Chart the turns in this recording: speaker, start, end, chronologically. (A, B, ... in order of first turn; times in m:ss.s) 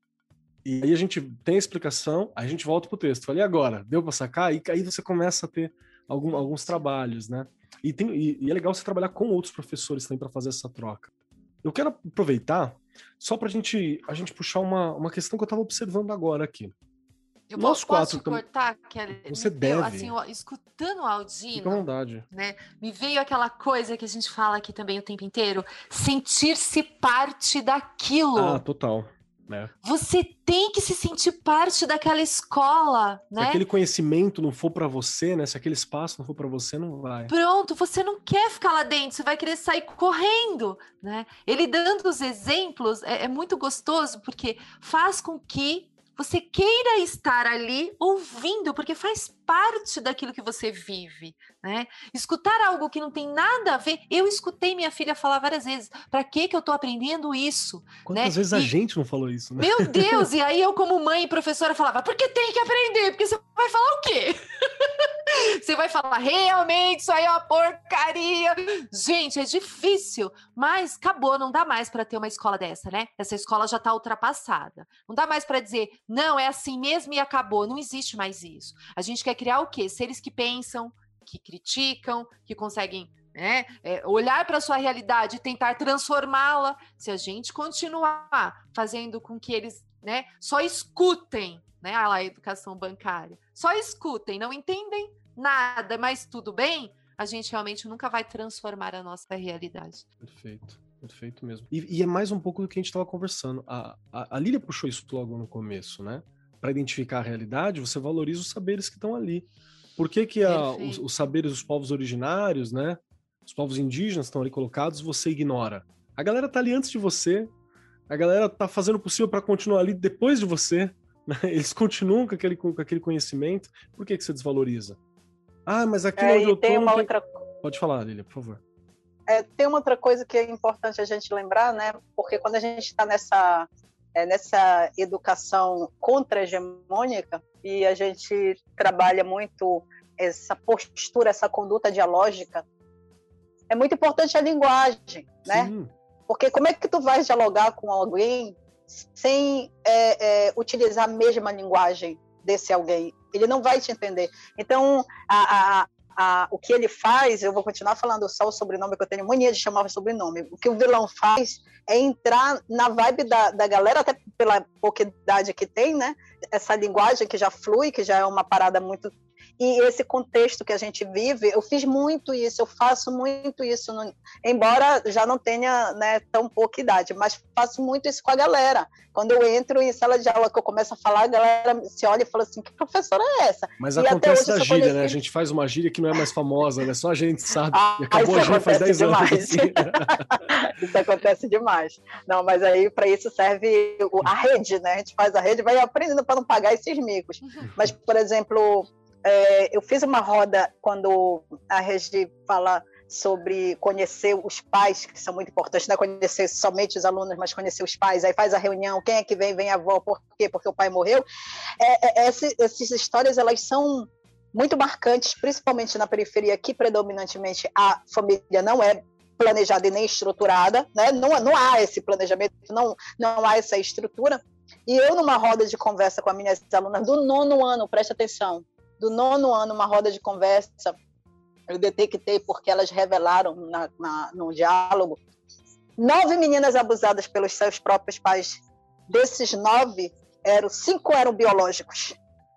0:00.6-0:11.1 A
0:06.3-0:06.9 B
0:11.6-0:16.7 A
0:17.5-0:28.6 B
0:17.6-0:18.4 A
0:19.1-0:20.1 A
0:21.5-0:22.2 A
0:28.3-0:29.7 A
0:29.8-0:33.6 B
0:33.4-0:37.3 A
0:37.3-0:58.7 B
0:58.0-1:00.3 A
0:59.6-1:40.0 B
1:40.2-1:49.4 A
1:50.0-1:57.5 A
1:50.4-1:51.0 B
1:58.1-2:05.0 A
2:05.6-2:07.1 A
2:06.2-2:07.4 C
2:07.6-2:08.6 A
2:09.3-2:22.6 C
2:23.7-2:25.7 C
2:25.5-2:25.9 A
2:26.3-3:05.2 C
3:03.8-3:10.4 A
3:07.7-3:31.2 C
3:31.8-3:51.0 C
3:51.7-3:55.2 C
3:56.0-4:02.2 C